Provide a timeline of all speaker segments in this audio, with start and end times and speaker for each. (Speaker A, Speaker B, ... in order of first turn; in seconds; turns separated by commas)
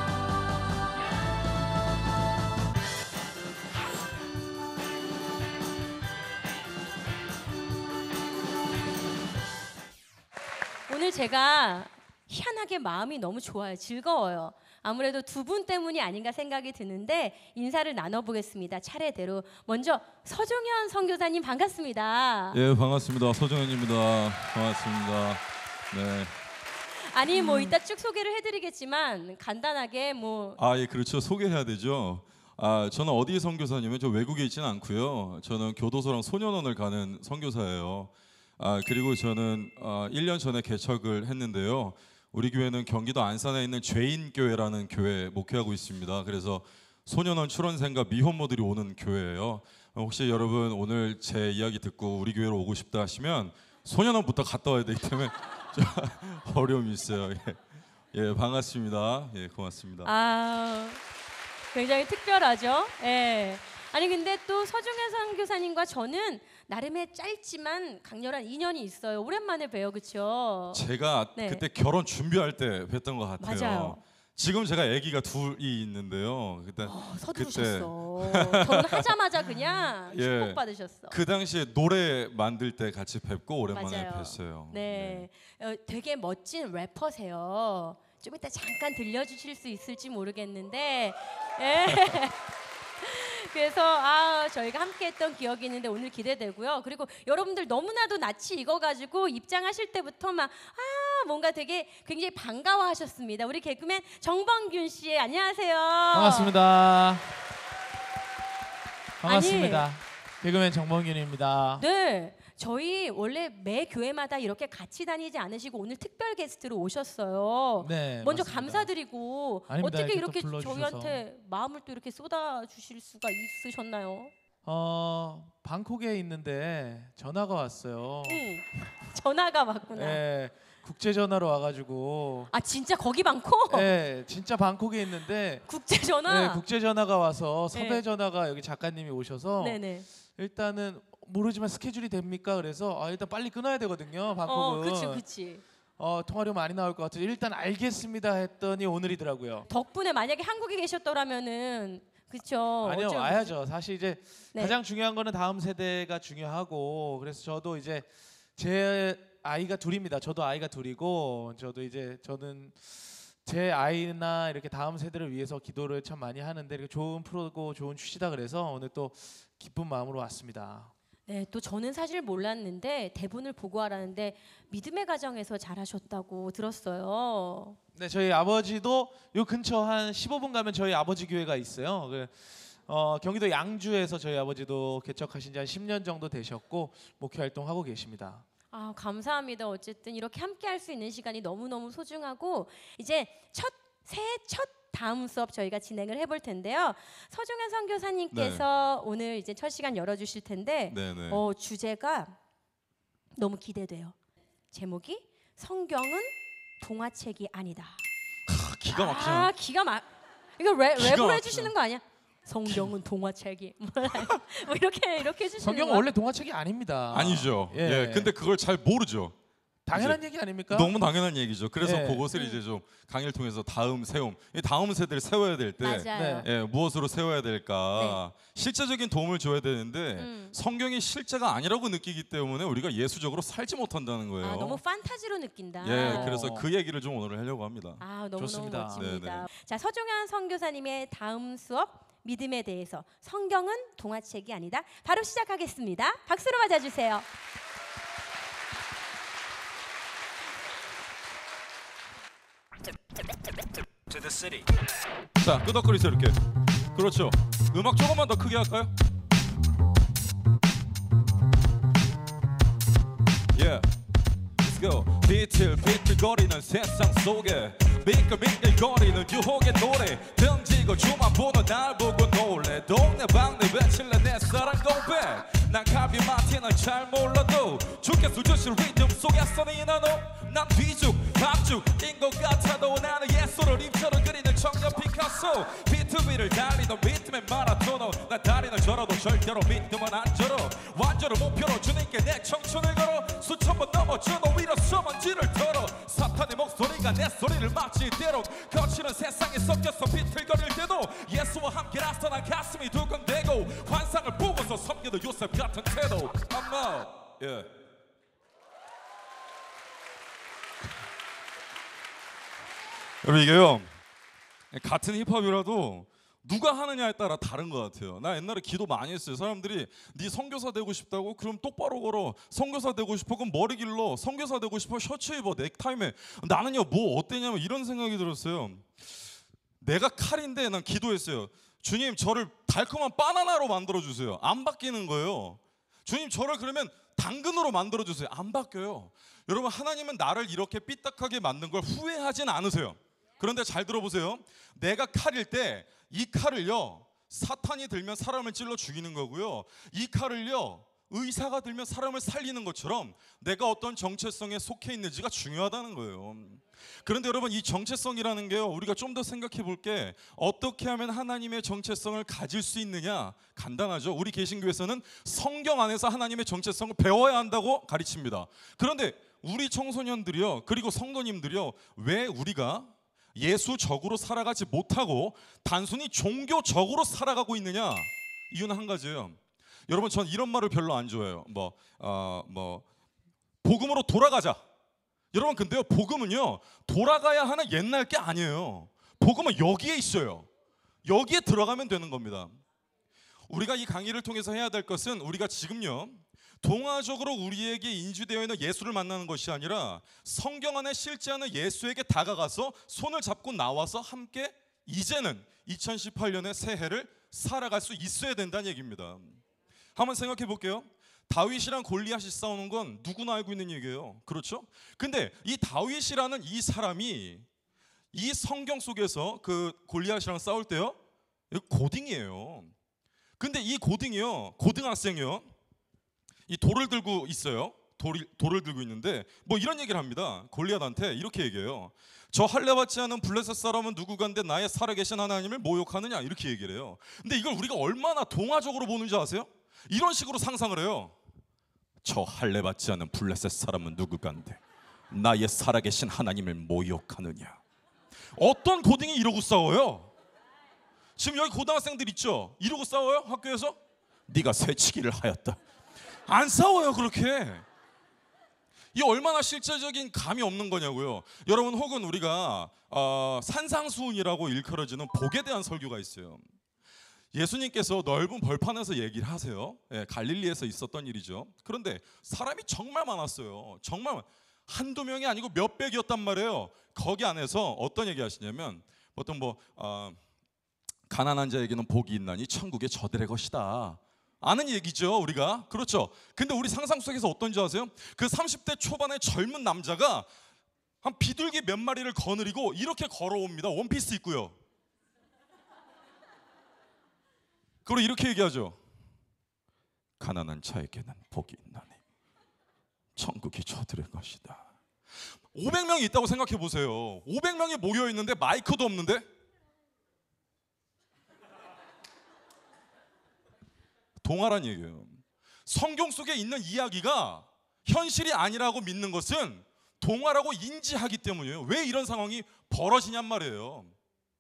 Speaker A: 10.9-22.6, Speaker B: 22.5-26.3, Speaker A: 27.1-30.6, Speaker B: 30.6-57.6, Speaker B: 58.1-60.1, Speaker A: 60.0-61.0, Speaker A: 61.7-70.8, Speaker B: 70.7-79.1, Speaker A: 71.4-71.7, Speaker A: 73.4-74.0, Speaker A: 76.8-81.2, Speaker B: 80.1-85.3, Speaker A: 83.7-92.4, Speaker A: 93.0-106.5, Speaker C: 106.1-107.3, Speaker C: 109.2-111.8, Speaker A: 109.2-109.9, Speaker A: 111.8-124.3, Speaker C: 117.8-118.9, Speaker C: 119.7-121.2, Speaker C: 124.7-128.4, Speaker A: 128.3-130.2, Speaker C: 129.9-132.5, Speaker A: 132.5-133.9, Speaker C: 133.7-135.7, Speaker A: 135.7-136.7, Speaker C: 136.2-139.8, Speaker A: 137.7-138.0, Speaker A: 139.6-140.1, Speaker C: 140.3-145.2, Speaker A: 144.4-145.6, Speaker C: 146.0-149.7, Speaker A: 149.7-153.5, Speaker C: 152.8-170.9, Speaker A: 171.3-177.8, Speaker C: 177.9-188.4, Speaker A: 188.7-202.4, Speaker B: 198.3-198.6, Speaker B: 200.9-201.4, Speaker A: 203.3-204.2, Speaker A: 204.7-208.0, Speaker B: 208.5-209.5, Speaker A: 208.9-210.1, Speaker A: 210.6-216.1, Speaker B: 211.0-211.7, Speaker B: 212.7-212.9, Speaker C: 215.6-218.3, Speaker B: 217.1-219.3, Speaker C: 219.9-220.9, Speaker B: 219.9-234.8, Speaker C: 221.8-222.3, Speaker A: 222.3-222.6, Speaker A: 225.8-226.5, Speaker C: 226.1-226.5, Speaker A: 230.2-230.6, Speaker A: 234.4-236.3, Speaker B: 235.8-238.0, Speaker C: 235.9-236.7, Speaker A: 238.0-247.3, Speaker C: 238.4-239.1, Speaker B: 239.0-239.4, Speaker B: 254.1-254.7, Speaker B: 255.4-256.4, Speaker B: 256.9-258.9, Speaker B: 263.5-263.9, Speaker B: 264.6-307.7, Speaker B: 313.2-313.9, Speaker B: 314.7-329.2, Speaker B: 329.8-379.4, Speaker B: 379.9-382.8, Speaker B: 383.6-384.6, Speaker B: 385.3-390.5, Speaker B: 391.1-392.6, Speaker B: 393.5-409.4, Speaker B: 410.0-417.4, Speaker B: 418.1-421.0, Speaker B: 421.5-422.7, Speaker B: 423.4-425.5, Speaker B: 426.5-441.1, Speaker B: 442.0-447.6, Speaker B: 448.4-450.1, Speaker B: 451.2-453.8, Speaker B: 454.3-455.6, Speaker B: 456.3-457.6, Speaker B: 458.9-466.4, Speaker B: 467.3-480.2, Speaker B: 481.1-490.3, Speaker B: 491.0-494.5, Speaker B: 497.9-498.8, Speaker B: 500.2-502.0, Speaker B: 503.2-504.6, Speaker B: 505.5-509.2, Speaker B: 514.2-523.9